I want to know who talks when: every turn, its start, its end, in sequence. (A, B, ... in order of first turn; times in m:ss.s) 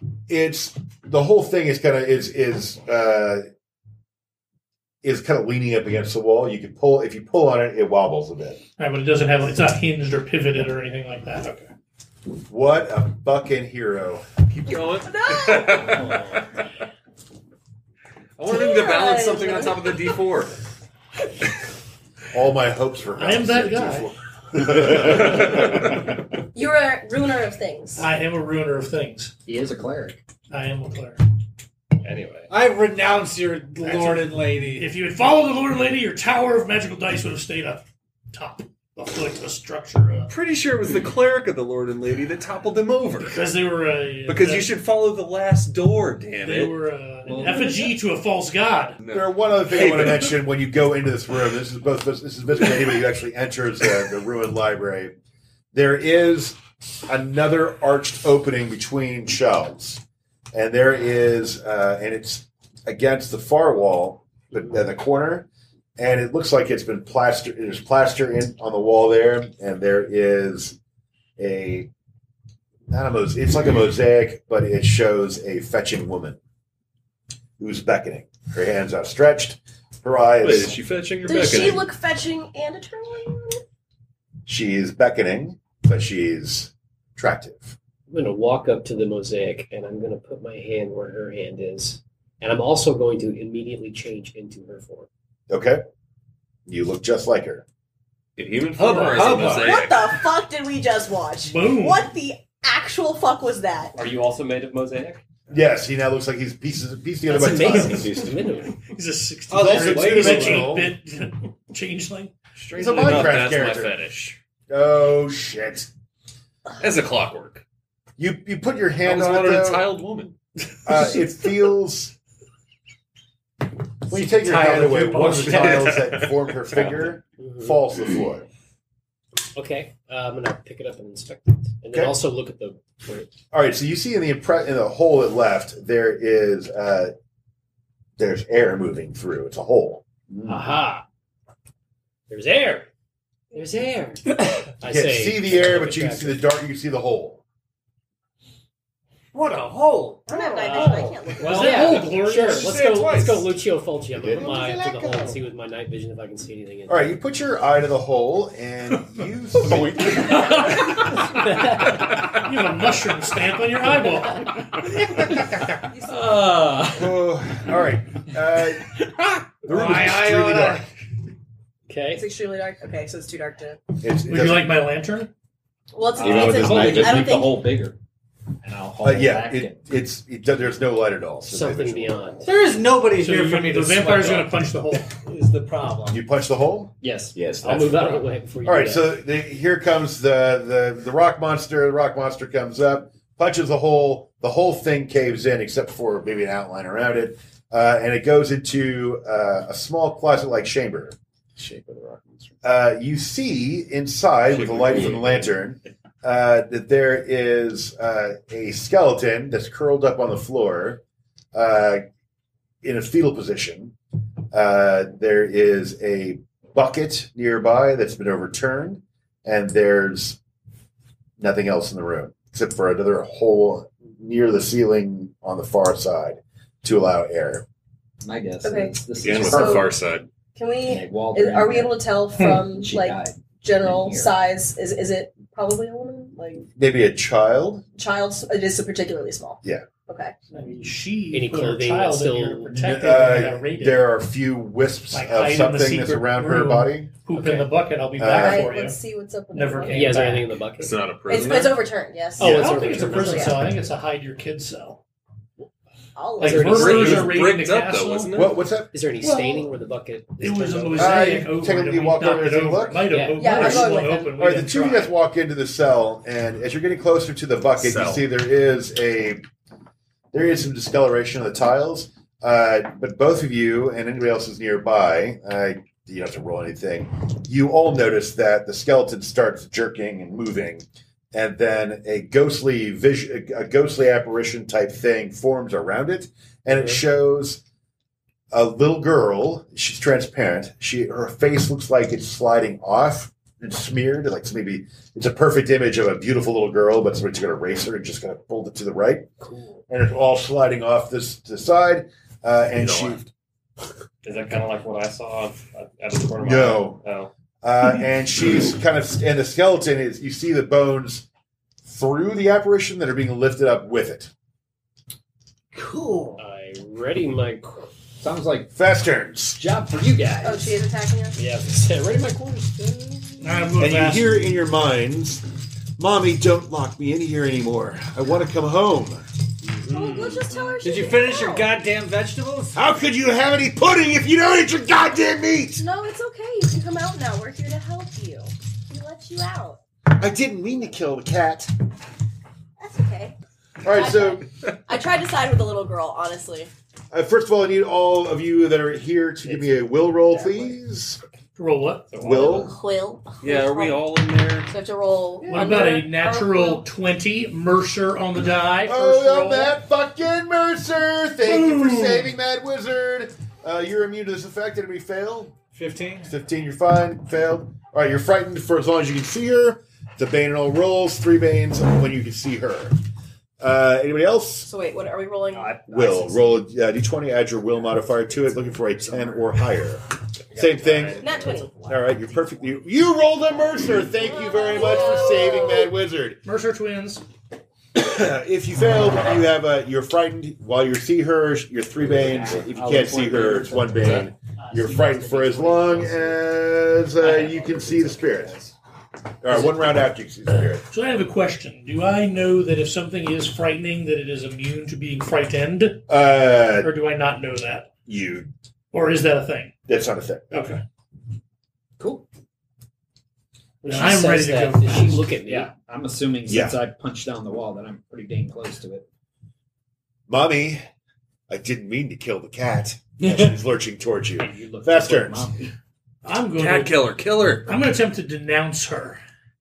0:00.3-0:03.4 A
0:05.0-0:08.6 A
0:08.8-0:11.7 B
0:12.5-0:14.2 A
0:14.5-0:16.4 C
0:15.0-0:16.1 D
0:18.4-0:20.5 C
0:18.5-0:20.1 D
0:22.3-0:25.8 A
0:23.2-0:24.1 B
0:24.7-0:25.7 C
0:26.5-0:28.0 D
0:28.0-0:29.3 B
0:29.4-0:30.2 E
0:30.5-0:31.2 B
0:32.0-0:32.5 F
0:32.5-0:34.9 G
0:33.8-0:40.3 B
0:40.3-0:43.4 C
0:43.2-0:44.7 B
0:44.2-0:46.8 C
0:46.4-0:49.0 B
0:47.3-0:47.7 E
0:49.0-0:50.3 C
0:49.1-0:55.1 A
0:55.7-1:00.0 A
1:00.5-1:10.8 A
1:11.4-1:11.9 A
1:12.9-1:16.4 A
1:17.6-1:20.8 A
1:20.4-1:21.9 C
1:21.2-1:23.6 D
1:24.4-1:27.8 A
1:28.1-1:35.1 H
1:35.5-1:35.8 A
1:36.7-1:37.6 A
1:38.4-1:40.2 C
1:38.8-1:39.9 G
1:39.0-1:39.4 B
1:39.4-1:43.9 D
1:41.5-1:42.1 B
1:43.9-1:45.2 F
1:45.5-1:48.3 A
1:47.2-1:48.8 H
1:48.9-1:52.3 B
1:49.5-1:50.7 G
1:49.5-1:50.9 A
1:50.3-1:50.6 C
1:52.6-1:54.4 C
1:52.7-1:54.0 A
1:54.7-1:55.9 A
1:56.8-1:57.6 C
1:58.2-2:00.0 A
1:59.0-2:00.9 C
2:00.8-2:02.1 A
2:04.1-2:08.4 A
2:04.2-2:06.3 H
2:05.4-2:05.9 G
2:05.4-2:06.3 C
2:07.3-2:07.8 H
2:09.5-2:13.3 H
2:13.5-2:17.1 A
2:18.2-2:20.0 A
2:20.4-2:21.0 H
2:22.3-2:22.9 H
2:23.5-2:26.4 H
2:24.8-2:27.4 A
2:29.3-2:32.0 G
2:30.3-2:31.9 D
2:30.7-2:37.2 H
2:31.6-2:32.7 B
2:32.4-2:33.4 C
2:32.8-2:33.2 G
2:34.1-2:35.0 I
2:34.4-2:35.3 A
2:36.9-2:40.5 A
2:39.6-2:40.2 I
2:40.2-2:42.0 H
2:41.3-2:41.6 B
2:42.2-2:44.6 B
2:45.9-2:46.3 D
2:46.1-2:47.0 H
2:46.9-2:48.9 A
2:49.6-2:50.8 G
2:49.6-2:50.8 A
2:51.9-2:52.2 H
2:52.1-2:53.8 D
2:54.0-2:54.8 A
2:54.3-2:55.3 B
2:55.9-2:57.7 D
2:56.2-2:58.0 E
2:56.2-2:57.4 I
2:58.6-2:59.8 E
2:59.0-3:02.3 A
3:01.4-3:02.5 H
3:02.4-3:04.6 G
3:03.2-3:05.1 B
3:05.1-3:06.2 G
3:06.1-3:06.9 A
3:07.0-3:08.2 E
3:07.3-3:08.2 I
3:07.6-3:09.2 H
3:08.6-3:21.2 A
3:21.6-3:22.5 I
3:22.6-3:31.0 A
3:24.5-3:25.5 C
3:31.5-3:32.0 A
3:32.8-3:33.9 A
3:34.5-3:40.4 A
3:41.4-3:47.6 A
3:48.2-3:49.8 E
3:48.6-3:49.9 D
3:49.2-3:50.2 C
3:50.5-3:56.6 D
3:50.8-3:54.4 E
3:52.4-3:52.6 B
3:56.8-3:57.8 A
3:58.0-4:00.3 D
4:00.5-4:04.1 B
4:01.3-4:02.8 H
4:02.7-4:07.2 A
4:05.1-4:09.0 B
4:07.4-4:07.7 H
4:08.2-4:08.7 A
4:08.3-4:10.4 D
4:09.5-4:10.5 B
4:09.8-4:11.0 H
4:10.8-4:11.8 C
4:11.2-4:13.6 D
4:12.4-4:13.7 H
4:12.4-4:15.0 B
4:16.1-4:17.2 D
4:16.4-4:18.4 B
4:16.4-4:17.4 H
4:16.6-4:18.6 C
4:18.3-4:18.9 A
4:18.9-4:21.2 H
4:19.2-4:19.7 B
4:20.4-4:25.1 B
4:21.0-4:23.1 A
4:23.0-4:24.2 H
4:23.4-4:24.3 D
4:24.4-4:29.4 A
4:27.8-4:28.3 C
4:30.3-4:47.6 A
4:46.7-4:47.0 H
4:48.5-4:59.3 A
4:59.4-4:59.8 H
4:59.9-5:03.2 A
5:02.8-5:03.3 C
5:04.2-5:07.3 F
5:06.4-5:07.0 A
5:07.6-5:11.2 A
5:11.8-5:14.3 A
5:16.4-5:17.9 H
5:18.2-5:18.7 E
5:18.7-5:19.6 A
5:19.6-5:20.8 E
5:20.4-5:21.4 D
5:21.4-5:23.5 H
5:23.4-5:24.3 B
5:23.8-5:25.4 A
5:26.0-5:29.3 A
5:29.8-5:30.4 H
5:29.9-5:31.7 D
5:30.8-5:32.8 G
5:32.7-5:35.8 A
5:35.7-5:39.8 D
5:40.1-5:41.7 A
5:42.8-5:43.3 D
5:43.8-5:44.4 A
5:43.9-5:46.7 D
5:47.1-5:51.2 A
5:49.4-5:50.8 H
5:51.6-5:52.0 B
5:52.1-5:52.7 F
5:52.2-5:52.7 A
5:52.2-5:54.1 D
5:53.4-5:54.7 C
5:53.4-5:53.8 F
5:54.7-5:56.8 D
5:55.5-5:59.8 B
5:58.8-6:05.5 A
6:01.4-6:02.3 B
6:05.7-6:06.3 G
6:06.2-6:13.0 A
6:13.6-6:14.7 A
6:14.6-6:16.4 D
6:15.5-6:16.6 E
6:15.9-6:21.3 A
6:19.1-6:19.4 E
6:20.6-6:22.5 E
6:21.2-6:21.7 D
6:21.8-6:26.4 A
6:24.2-6:25.9 D
6:26.4-6:27.2 B
6:27.9-6:38.6 A
6:31.9-6:34.3 E
6:35.0-6:35.7 H
6:35.9-6:36.2 E
6:37.2-6:38.7 E
6:39.4-6:40.8 A
6:39.5-6:39.9 E
6:40.9-6:46.0 B
6:46.1-6:46.9 A
6:46.8-6:47.9 B
6:48.0-6:48.5 A
6:48.9-6:49.7 B
6:49.9-6:50.7 A
6:50.5-6:50.8 B
6:52.0-6:52.2 E
6:53.8-6:55.8 H
6:53.8-6:55.2 B
6:54.8-6:59.0 E
6:56.5-6:56.8 A
7:00.3-7:00.8 A
7:01.5-7:05.5 A
7:03.2-7:03.5 E
7:04.4-7:05.7 E
7:06.2-7:09.2 B
7:06.6-7:07.7 C